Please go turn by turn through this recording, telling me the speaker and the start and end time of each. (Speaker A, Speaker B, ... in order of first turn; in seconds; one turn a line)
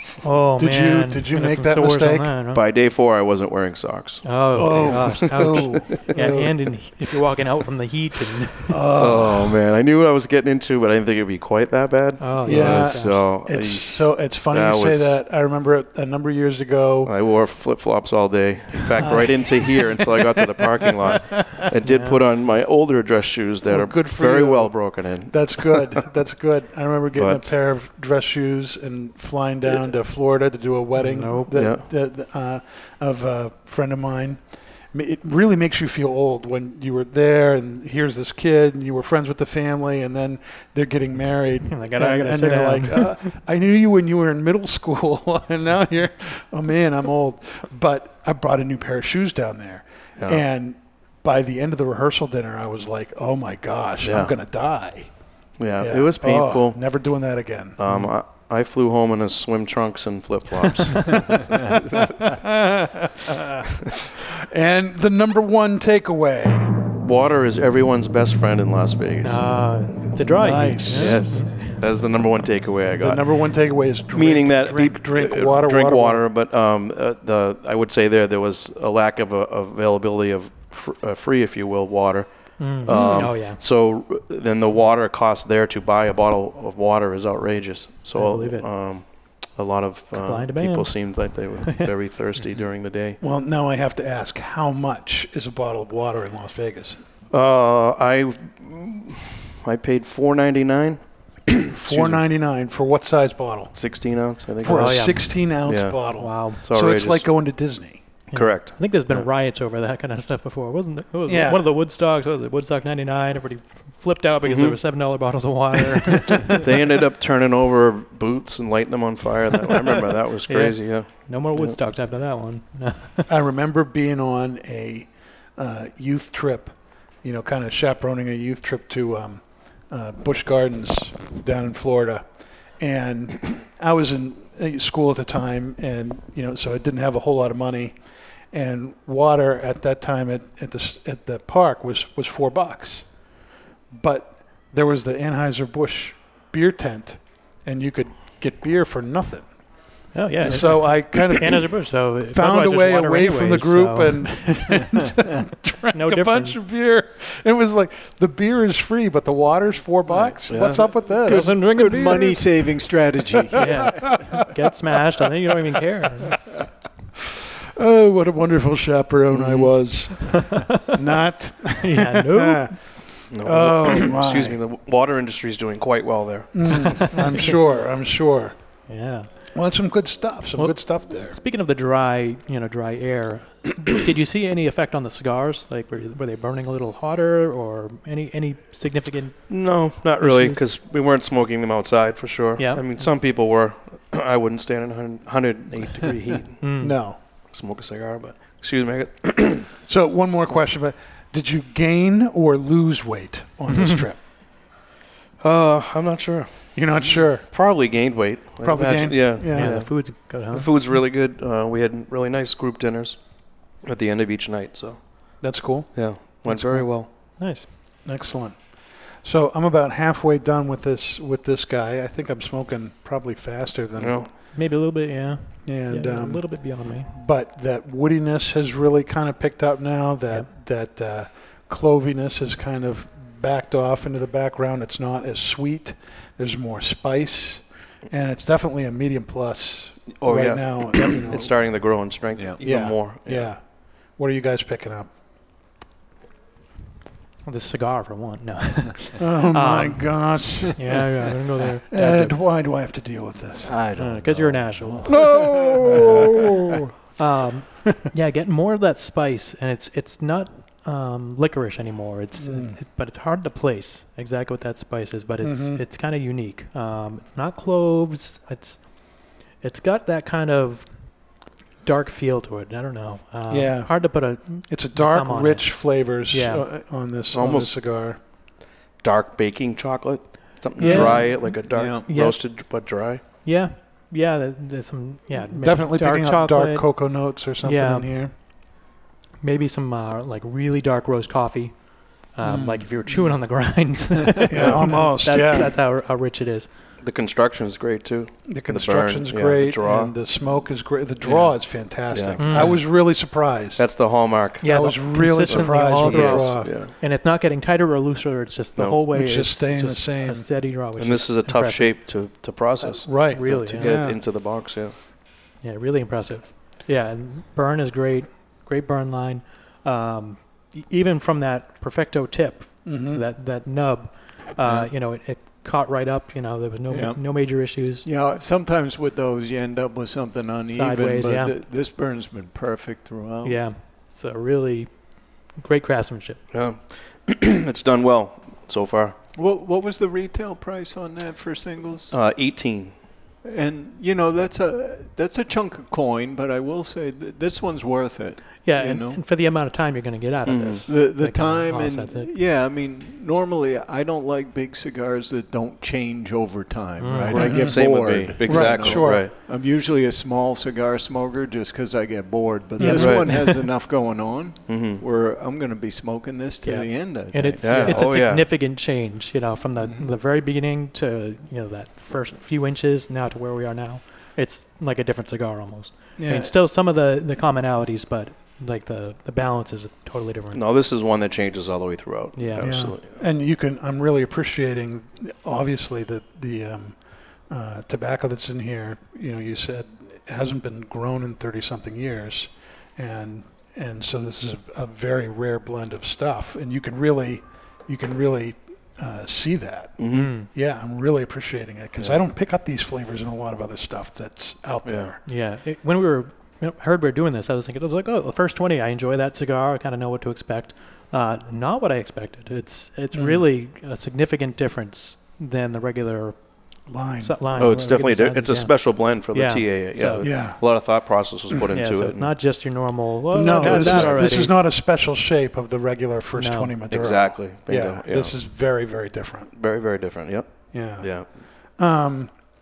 Speaker A: 0.2-2.6
Speaker B: 0.6-2.3
Speaker C: 2.5-5.6
Speaker A: 4.2-8.8
Speaker B: 4.5-6.5
Speaker B: 8.7-9.6
Speaker C: 8.9-15.2
Speaker A: 12.2-13.2
Speaker B: 12.4-17.1
Speaker C: 17.0-26.0
Speaker B: 19.0-21.4
Speaker A: 21.9-22.2
Speaker B: 23.6-55.1
Speaker C: 27.1-27.5
Speaker A: 31.0-31.5
Speaker C: 31.5-31.8
Speaker A: 41.7-43.3
Speaker C: 54.0-54.3
Speaker C: 55.6-56.8
Speaker B: 55.8-57.8
Speaker C: 57.8-62.1
Speaker B: 62.2-63.6
Speaker B: 64.4-66.8
Speaker C: 67.0-69.4
Speaker A: 69.2-71.8
Speaker B: 70.1-71.5
Speaker C: 70.9-73.2
Speaker B: 73.0-76.2
Speaker C: 74.1-93.2
Speaker A: 82.6-83.6
Speaker B: 82.9-83.4
Speaker A: 88.1-88.7
Speaker A: 90.2-91.9
Speaker B: 93.2-97.0
Speaker C: 97.3-102.2
Speaker B: 101.7-103.8
Speaker C: 103.7-107.2
Speaker B: 104.6-108.0
Speaker A: 104.6-105.4
Speaker A: 106.2-106.6
Speaker C: 108.3-109.2
Speaker A: 108.3-116.6
Speaker B: 111.3-111.6
Speaker C: 114.4-114.8
Speaker C: 116.5-121.8
Speaker A: 120.5-123.3
Speaker B: 123.3-132.2
Speaker B: 132.8-137.9
Speaker B: 138.5-143.1
Speaker B: 143.9-149.5
Speaker A: 150.1-154.5
Speaker B: 150.4-161.6
Speaker A: 155.9-156.6
Speaker C: 160.5-160.9
Speaker D: 161.2-164.0
Speaker A: 161.2-162.8
Speaker A: 163.6-166.4
Speaker B: 167.7-174.6
Speaker C: 169.3-169.7
Speaker A: 170.3-170.9
Speaker A: 171.8-172.7
Speaker C: 173.3-177.2
Speaker B: 176.5-178.6
Speaker A: 177.0-177.5
Speaker A: 178.9-179.3
Speaker B: 179.5-181.4
Speaker A: 180.6-189.6
Speaker C: 189.5-196.7
Speaker A: 190.2-190.7
Speaker A: 192.6-192.8
Speaker A: 196.6-196.9
Speaker B: 196.8-197.2
Speaker C: 197.5-199.7
Speaker B: 199.8-204.2
Speaker A: 203.7-204.0
Speaker C: 205.4-217.1
Speaker B: 206.7-207.6
Speaker B: 208.6-209.9
Speaker A: 209.5-210.7
Speaker B: 215.4-217.1
Speaker A: 217.0-217.7
Speaker B: 218.0-224.2
Speaker C: 224.0-224.3
Speaker A: 224.5-227.1
Speaker B: 225.6-241.8
Speaker C: 240.2-243.5
Speaker B: 242.6-245.1
Speaker A: 247.4-252.4
Speaker B: 249.2-251.0
Speaker B: 251.9-253.8
Speaker D: 253.6-256.4
Speaker A: 254.0-255.3
Speaker B: 255.0-256.9
Speaker A: 257.1-271.3
Speaker B: 262.4-262.8
Speaker B: 265.4-265.8
Speaker A: 271.8-276.6
Speaker B: 273.5-278.2
Speaker C: 277.3-277.7
Speaker C: 279.0-283.2
Speaker B: 280.8-281.3
Speaker A: 280.8-282.4
Speaker D: 281.7-282.0
Speaker A: 283.4-287.0
Speaker B: 285.3-288.3
Speaker A: 287.6-288.1
Speaker A: 289.4-296.7
Speaker B: 292.4-293.0
Speaker B: 294.5-295.8
Speaker C: 297.0-300.1
Speaker B: 298.4-306.7
Speaker C: 302.1-302.8
Speaker A: 302.4-302.8
Speaker C: 303.8-304.9
Speaker A: 304.6-311.9
Speaker C: 305.5-306.9
Speaker B: 309.1-310.4
Speaker C: 311.0-314.9
Speaker B: 312.8-314.2
Speaker A: 313.3-313.9
Speaker A: 315.6-328.1
Speaker B: 322.8-323.2
Speaker D: 324.6-324.9
Speaker D: 326.9-333.6
Speaker A: 330.7-331.5
Speaker A: 333.4-336.4
Speaker C: 336.5-339.1
Speaker D: 339.4-342.2
Speaker C: 342.1-342.9
Speaker D: 343.4-349.2
Speaker A: 348.6-352.3
Speaker C: 350.4-350.9
Speaker D: 350.9-368.1
Speaker A: 357.0-357.5
Speaker C: 357.3-359.3
Speaker B: 357.4-357.8
Speaker B: 358.4-359.3
Speaker B: 362.8-363.1
Speaker A: 362.8-363.6
Speaker C: 362.9-363.3
Speaker C: 364.7-365.0
Speaker A: 366.6-380.6
Speaker C: 367.6-368.5
Speaker D: 369.8-370.1
Speaker B: 376.2-376.5
Speaker C: 380.5-383.0
Speaker A: 382.3-382.7
Speaker B: 382.6-405.2
Speaker C: 400.0-400.3
Speaker A: 400.1-400.5
Speaker C: 404.8-405.1
Speaker A: 405.2-416.4
Speaker B: 413.1-413.4
Speaker B: 416.9-417.4
Speaker A: 417.2-420.2
Speaker C: 417.6-422.3
Speaker B: 420.2-420.6
Speaker A: 421.7-424.6
Speaker B: 423.3-429.5
Speaker C: 423.4-424.4
Speaker A: 426.4-426.7
Speaker C: 426.9-428.4
Speaker C: 429.6-431.3
Speaker B: 430.7-432.3